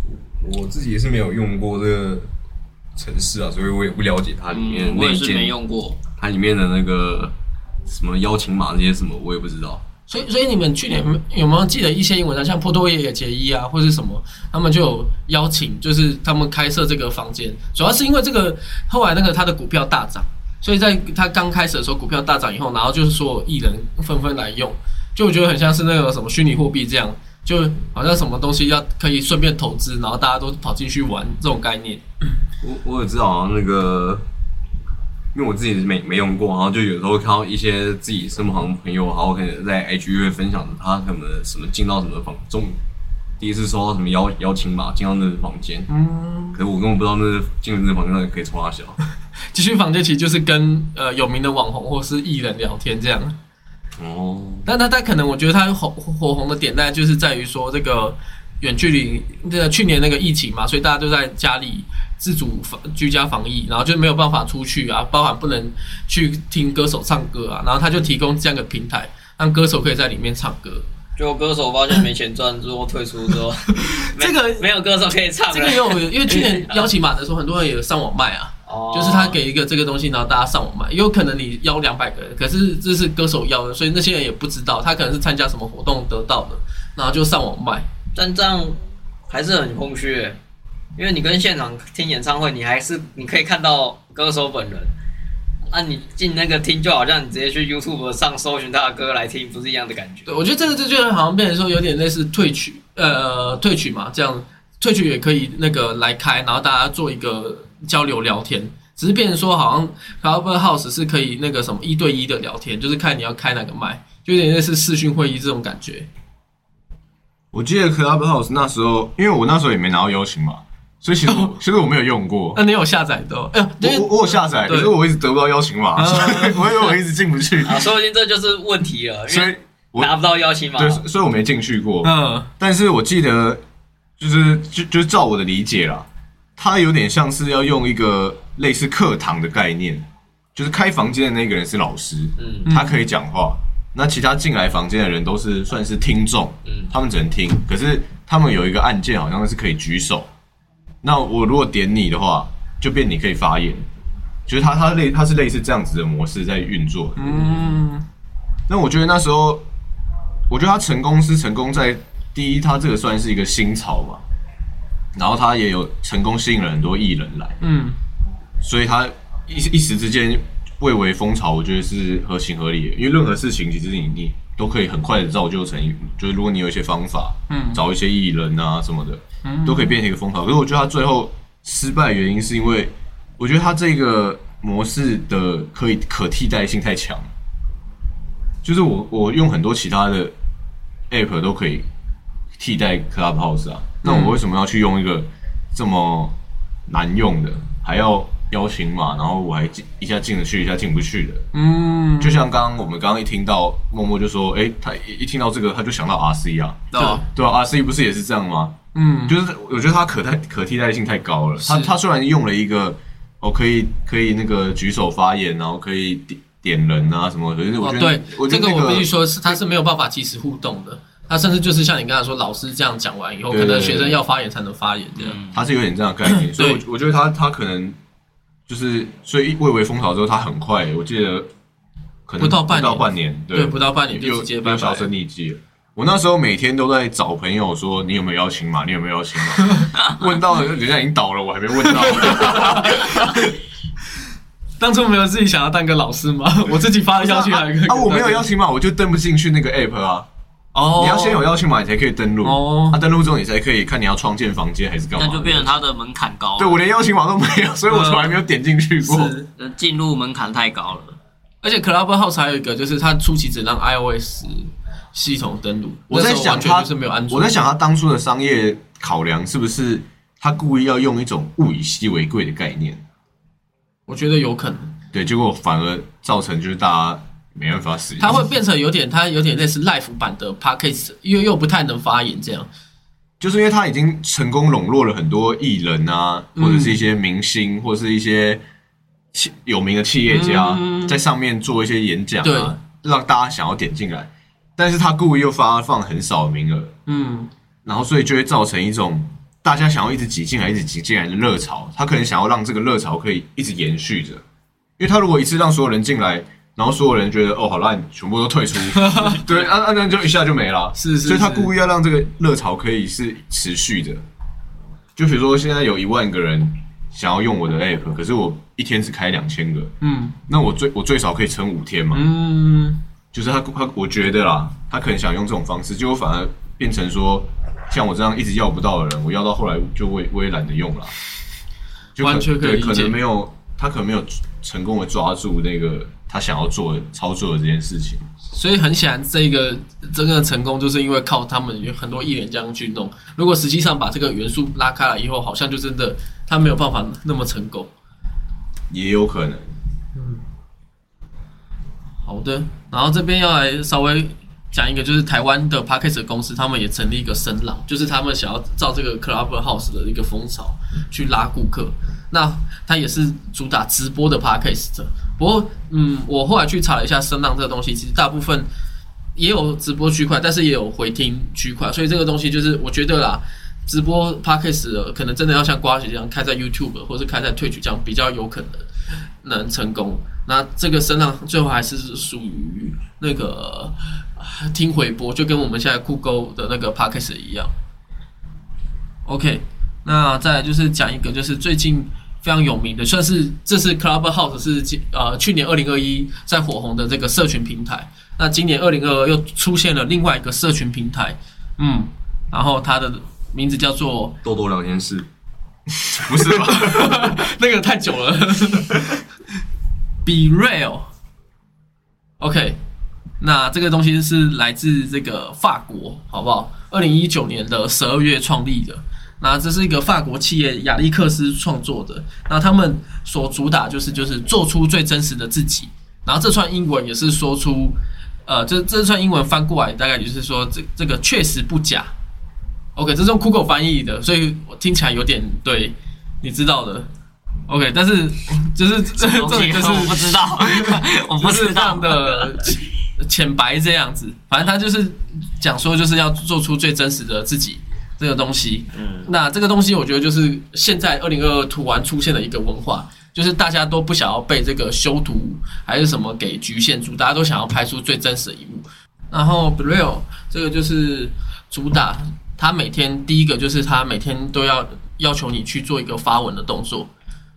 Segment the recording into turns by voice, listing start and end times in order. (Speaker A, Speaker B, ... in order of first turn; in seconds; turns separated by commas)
Speaker A: 0.4-2.3, Speaker A: 3.0-5.5, Speaker B: 4.5-6.0, Speaker A: 6.2-7.3, Speaker A: 7.9-9.8, Speaker C: 10.1-32.0, Speaker A: 32.6-34.2, Speaker A: 35.3-42.8, Speaker A: 43.4-45.9, Speaker C: 45.9-46.6, Speaker A: 46.5-49.0, Speaker C: 49.5-53.4, Speaker A: 54.0-54.7, Speaker C: 54.6-70.8, Speaker B: 71.2-76.8, Speaker C: 73.8-74.7, Speaker C: 75.5-87.9, Speaker B: 78.7-79.4, Speaker B: 88.2-88.8, Speaker B: 89.3-90.4, Speaker B: 91.0-94.9, Speaker B: 95.7-100.3, Speaker C: 100.3-116.1, Speaker D: 117.5-122.6, Speaker C: 122.5-124.9, Speaker D: 123.8-127.9, Speaker C: 126.0-126.9, Speaker B: 127.6-131.0, Speaker D: 129.3-130.1, Speaker D: 130.7-133.6, Speaker C: 132.0-132.5, Speaker D: 134.2-136.1, Speaker D: 136.6-150.3, Speaker B: 142.4-142.7, Speaker C: 142.7-143.0, Speaker D: 151.0-153.9, Speaker D: 154.5-157.6, Speaker C: 157.2-158.1, Speaker D: 158.7-159.6, Speaker D: 160.5-164.2, Speaker D: 165.2-167.6, Speaker C: 167.6-168.0, Speaker D: 168.6-187.3, Speaker C: 177.5-177.8, Speaker C: 179.4-180.0, Speaker D: 188.6-190.3, Speaker D: 191.1-191.9, Speaker D: 192.6-196.3, Speaker C: 194.0-194.4, Speaker D: 196.9-201.4, Speaker C: 201.5-202.5, Speaker D: 202.2-208.8, Speaker C: 206.9-207.2, Speaker B: 206.9-207.2, Speaker C: 208.9-209.4, Speaker D: 209.3-219.6, Speaker C: 211.6-211.9, Speaker C: 217.8-225.4, Speaker D: 223.5-224.2, Speaker B: 225.2-225.6, Speaker D: 225.5-228.0, Speaker C: 226.4-226.8, Speaker D: 228.7-231.5, Speaker D: 232.3-243.5, Speaker C: 232.4-235.1, Speaker C: 239.6-239.9, Speaker C: 241.9-243.5, Speaker C: 244.8-248.5, Speaker D: 247.2-250.3, Speaker C: 250.7-251.4, Speaker D: 251.0-255.7, Speaker C: 252.4-253.0, Speaker B: 255.2-256.8, Speaker D: 256.6-259.3, Speaker C: 257.9-258.4, Speaker C: 259.0-259.5, Speaker B: 259.6-261.2, Speaker C: 261.6-267.6, Speaker D: 266.1-273.0, Speaker C: 274.1-274.9, Speaker D: 275.1-278.4, Speaker C: 278.2-282.7, Speaker D: 283.4-288.6, Speaker C: 286.6-287.0, Speaker D: 289.3-296.9, Speaker C: 290.3-291.2, Speaker C: 292.4-292.8, Speaker C: 297.1-297.5, Speaker D: 297.9-304.4, Speaker D: 305.0-314.2, Speaker C: 308.9-309.4, Speaker C: 311.0-311.7, Speaker D: 315.2-319.9, Speaker C: 320.0-320.4, Speaker D: 320.5-322.2, Speaker C: 322.1-323.0, Speaker D: 323.3-331.1, Speaker D: 332.2-338.2, Speaker C: 332.2-333.2, Speaker C: 338.5-347.9, Speaker D: 348.9-349.7, Speaker C: 350.1-350.4, Speaker C: 352.2-368.7, Speaker C: 369.4-378.9, Speaker C: 379.4-387.7, Speaker C: 389.3-404.4, Speaker A: 404.4-405.3, Speaker D: 406.3-407.2, Speaker C: 406.3-409.1, Speaker C: 410.2-411.1, Speaker C: 412.4-412.8, Speaker C: 413.4-432.1, Speaker C: 433.0-437.1, Speaker C: 437.7-467.1, Speaker B: 439.2-442.6, Speaker B: 448.9-449.3